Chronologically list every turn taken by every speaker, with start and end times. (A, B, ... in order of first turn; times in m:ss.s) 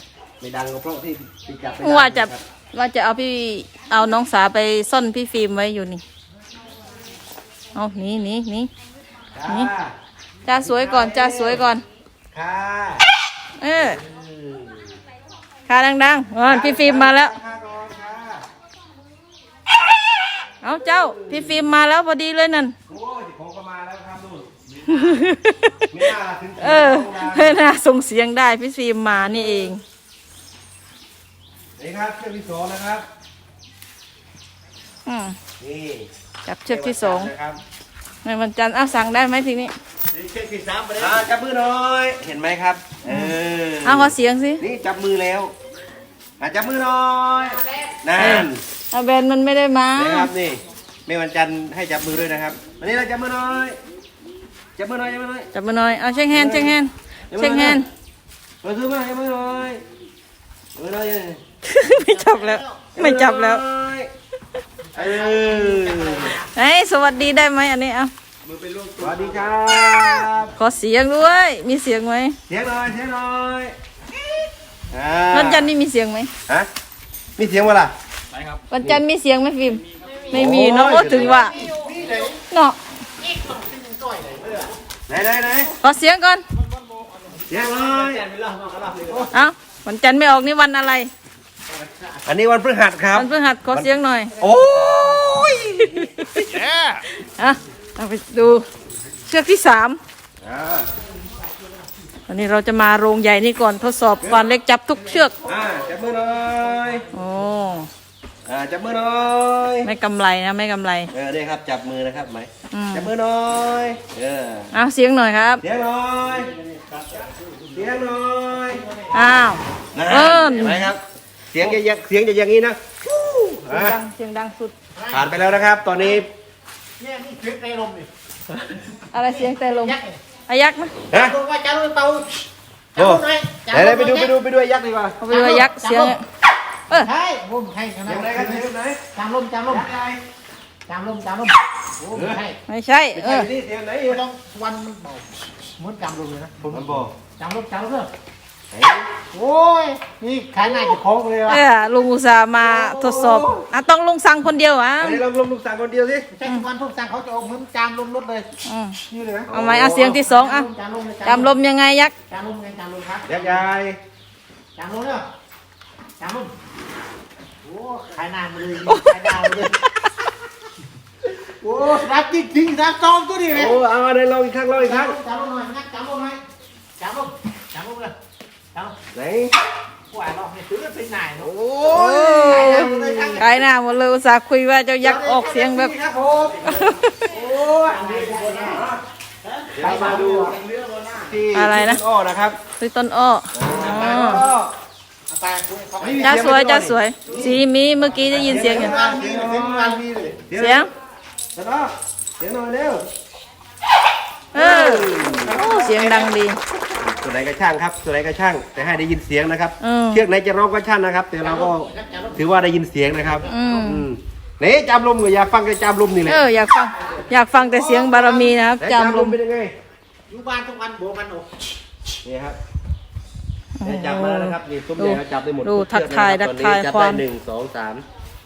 0:00.4-0:02.4 A
0:01.8-0:06.0 B
0:07.7-0:08.7 B
0:09.3-0:09.9 A
0:10.4-0:11.8 B
0:10.6-0:11.6 A
0:12.3-0:13.0 A
0:13.6-0:14.0 B
0:13.7-0:15.0 A
0:15.6-0:17.3 B
0:16.4-0:18.4 A
0:20.6-0:22.7 B
0:20.7-0:21.6 A
0:22.9-0:24.5 A
0:24.8-0:25.9 B
0:25.9-0:27.6 A
0:26.6-0:29.8 B
0:31.8-0:33.0 A
0:35.0-0:35.4 B
0:35.6-0:36.1 A
0:36.4-0:37.3 B
0:36.7-0:37.6 A
0:38.2-0:39.7 B
0:40.1-0:41.2 C
0:41.0-0:45.5 A
0:43.0-0:44.6 B
0:46.4-0:48.6 A
0:48.2-0:50.3 B
0:50.0-0:53.8 A
0:54.8-0:55.5 A
0:55.5-0:57.9 B
0:56.3-0:56.8 A
0:57.3-0:57.8 A
0:58.6-0:59.8 A
1:00.7-1:01.4 A
1:01.6-1:03.6 B
1:02.0-1:02.9 D
1:03.0-1:04.1 A
1:04.9-1:06.4 D
1:04.9-1:06.4 A
1:06.3-1:08.1 B
1:08.4-1:09.5 C
1:09.0-1:10.5 A
1:10.6-1:12.4 B
1:12.5-1:13.7 A
1:14.9-1:15.7 A
1:15.3-1:16.3 B
1:17.4-1:17.9 A
1:18.7-1:21.7 B
1:20.0-1:22.4 D
1:20.3-1:21.5 A
1:22.5-1:22.8 B
1:23.2-1:24.8 D
1:25.1-1:25.7 A
1:25.8-1:26.4 B
1:26.8-1:29.3 D
1:27.5-1:28.3 A
1:28.8-1:29.2 C
1:29.3-1:31.1 B
1:31.7-1:32.2 D
1:32.2-1:36.7 A
1:33.1-1:34.3 B
1:35.3-1:36.5 B
1:37.1-1:38.6 B
1:39.3-1:40.0 B
1:40.4-1:40.9 A
1:42.3-1:45.3 B
1:44.2-1:44.5 A
1:45.4-1:47.0 A
1:47.1-1:47.9 B
1:48.4-1:49.9 A
1:49.8-1:51.1 B
1:51.1-1:54.7 A
1:52.7-1:53.1 B
1:54.7-1:55.6 B
1:55.6-1:56.5 A
1:57.7-1:58.8 A
1:58.7-1:59.3 D
1:59.1-2:00.9 B
1:59.9-2:02.8 A
2:03.2-2:04.7 B
2:03.5-2:04.0 A
2:04.9-2:05.3 D
2:05.1-2:06.3 A
2:07.0-2:08.1 D
2:09.1-2:10.0 B
2:09.2-2:10.2 D
2:10.5-2:10.9 B
2:11.1-2:11.4 A
2:11.1-2:14.3 D
2:13.0-2:15.2 A
2:15.2-2:16.2 B
2:15.3-2:16.2 D
2:16.9-2:19.9 D
2:18.0-2:19.0 A
2:19.6-2:20.2 A
2:20.9-2:22.6 D
2:22.1-2:22.4 A
2:22.7-2:23.5 B
2:23.1-2:24.2 A
2:24.1-2:25.3 D
2:25.8-2:28.1 D
2:26.6-2:27.1 A
2:28.7-2:29.1 A
2:29.3-2:31.6 D
2:31.5-2:35.2 B
2:32.6-2:33.6 A
2:35.0-2:36.3 A
2:36.3-2:38.5 D
2:38.6-2:39.0 B
2:39.1-2:39.5 D
2:39.5-2:40.2 A
2:39.5-2:40.7 B
2:40.2-2:41.5 D
2:41.2-2:42.1 B
2:42.3-2:43.6 D
2:43.2-2:44.0 A
2:44.8-2:45.3 D
2:46.2-2:46.5 D
2:47.6-2:49.8 D
2:48.8-2:49.6 B
2:51.5-2:53.8 D
2:53.5-2:55.2 A
2:54.8-2:56.4 D
2:57.0-2:58.1 D
2:59.1-2:59.6 A
3:00.1-3:01.5 D
3:01.4-3:03.4 A
3:01.9-3:05.9 B
3:02.2-3:03.5 D
3:05.0-3:06.3 A
3:06.2-3:06.6 D
3:06.6-3:07.2 B
3:07.2-3:09.0 A
3:07.3-3:08.8 D
3:09.5-3:11.2 D
3:09.7-3:10.6 A
3:11.2-3:12.6 A
3:11.5-3:12.0 B
3:12.8-3:14.4 B
3:13.5-3:14.7 A
3:13.8-3:14.5 D
3:15.3-3:16.6 D
3:16.0-3:17.6 A
3:16.2-3:19.0 B
3:18.2-3:20.4 D
3:18.3-3:20.9 A
3:20.5-3:20.9 B
3:21.5-3:23.1 A
3:24.5-3:36.4 A
3:24.5-3:26.6 B
3:29.8-3:30.2 B
3:31.4-3:32.4 D
3:33.3-3:33.8 D
3:33.5-3:34.1 B
3:36.2-3:39.4 B
3:37.6-3:39.7 A
3:40.3-3:41.5 D
3:42.2-3:42.6 A
3:43.8-3:47.2 B
3:43.8-3:48.0 A